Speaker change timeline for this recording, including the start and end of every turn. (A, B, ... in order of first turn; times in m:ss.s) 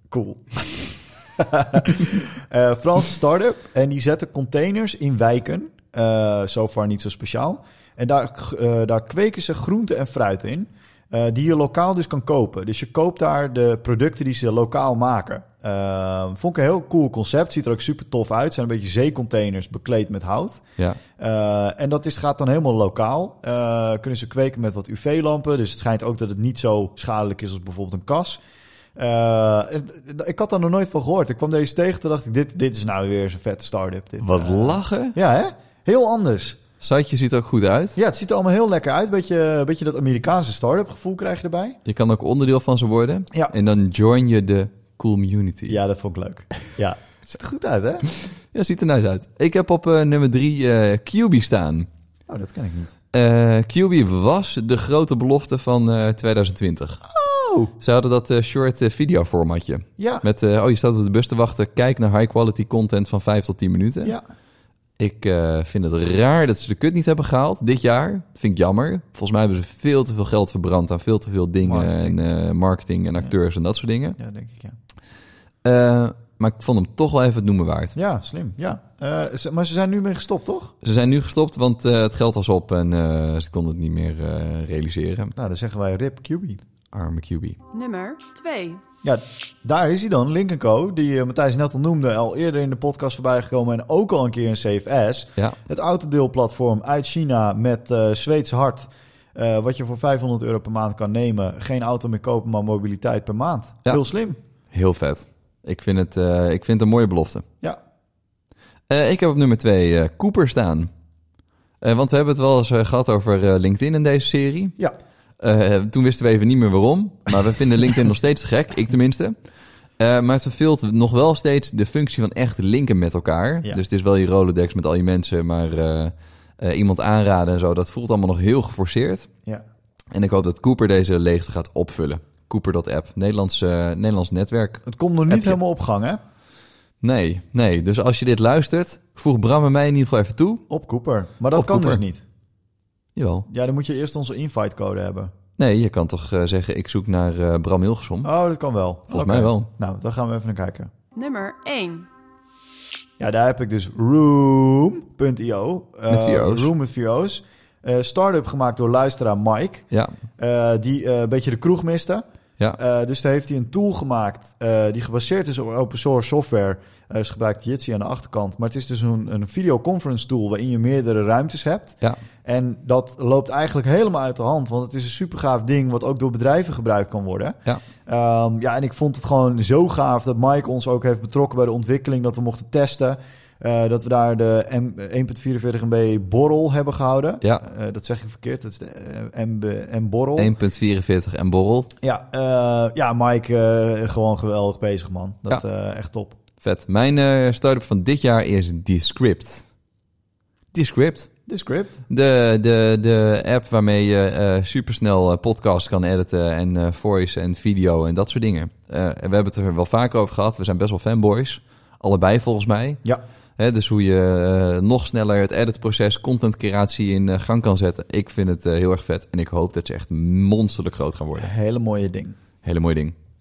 0:00.1-0:20.6 A
0:21.2-0:28.4 A
0:29.0-0:36.6 A
0:34.2-0:35.2 B
0:36.8-0:38.0 B
0:38.0-0:41.8 A
0:41.8-0:45.8 B
0:45.7-0:48.2 A
0:48.5-0:51.9 B
0:52.3-0:53.0 A
0:53.1-0:57.0 B
0:57.0-0:57.7 A
0:57.8-1:04.2 B
1:00.0-1:00.3 A
1:05.0-1:14.2 B
1:11.6-1:12.2 A
1:14.2-1:14.8 A
1:15.6-1:17.9 B
1:17.9-1:20.7 A
1:20.8-1:25.3 B
1:25.4-1:26.6 A
1:26.9-1:27.6 B
1:27.7-1:28.8 C
1:29.0-1:44.4 A
1:44.7-1:47.4 B
1:48.9-1:50.9 B
1:51.8-1:54.8 B
1:55.4-2:09.3 B
2:10.1-2:15.6 B
2:14.8-2:16.2 A
2:17.0-2:20.6 B
2:20.7-2:22.2 A
2:21.5-2:22.0 B
2:23.2-2:23.5 B
2:23.5-2:25.3 A
2:25.6-2:28.3 B
2:28.2-2:30.9 A
2:29.1-2:29.7 B
2:31.1-2:32.1 C
2:33.2-2:39.9 A
2:36.1-2:36.7 B
2:40.4-2:42.2 A
2:42.8-3:10.5 A
3:10.4-3:11.9 B
3:12.0-3:16.4 A
3:16.6-3:19.7 B
3:20.7-3:21.4 B
3:21.5-3:22.0 A
3:22.1-3:33.1 B
3:33.6-3:41.5 B
3:41.3-3:42.4 A
3:42.6-3:43.1 B